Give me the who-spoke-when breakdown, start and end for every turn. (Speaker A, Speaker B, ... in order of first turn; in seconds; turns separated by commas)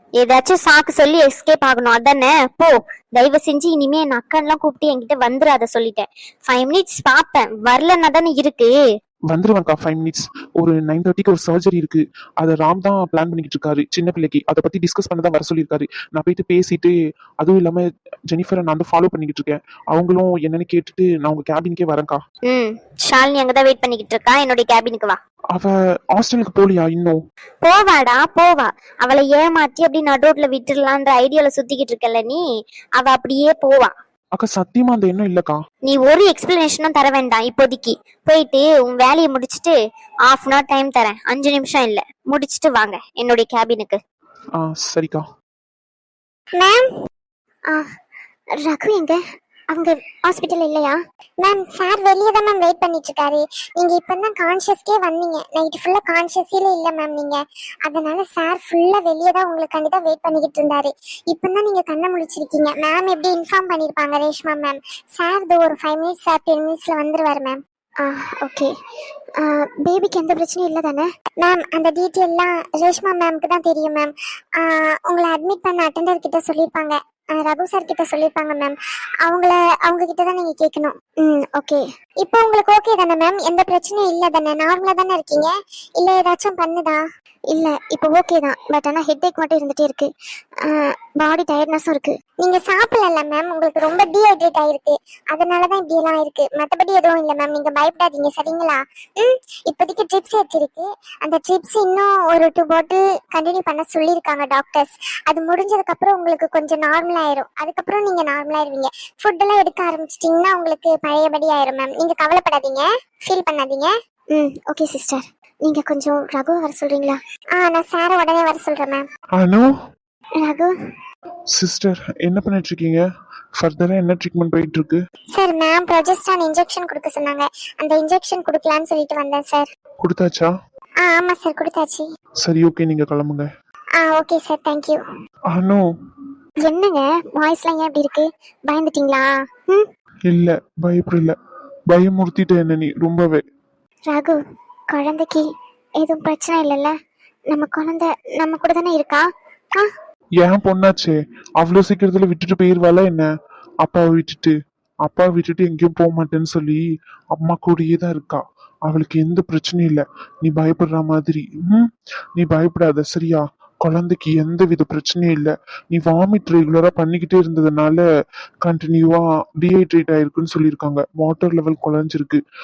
Speaker A: 0.2-8.7, Speaker B: 9.3-22.2, Speaker A: 22.4-25.1, Speaker B: 25.5-27.2, Speaker A: 27.6-32.4, Speaker A: 33.0-33.9, Speaker B: 34.4-35.6, Speaker A: 35.9-39.8, Speaker A: 40.3-44.0, Speaker B: 44.6-45.2, Speaker C: 48.6-49.2, Speaker C: 49.7-68.7, Speaker C: 69.4-87.0, Speaker C: 87.5-90.1, Speaker C: 90.7-119.0, Speaker B: 119.4-119.7, Speaker C: 120.4-120.7, Speaker B: 121.5-123.0, Speaker B: 123.6-125.0, Speaker C: 125.3-129.7, Speaker B: 130.0-130.5, Speaker C: 131.0-132.0, Speaker B: 132.4-133.4, Speaker C: 134.0-135.0, Speaker B: 135.5-135.8, Speaker C: 136.6-139.8, Speaker B: 140.3-141.3, Speaker B: 141.9-143.4, Speaker C: 144.1-144.4, Speaker C: 144.9-145.4, Speaker C: 146.0-146.9, Speaker C: 147.5-149.2, Speaker B: 150.4-153.3, Speaker B: 153.8-154.5, Speaker B: 155.1-156.8, Speaker B: 157.3-168.0, Speaker B: 168.6-172.4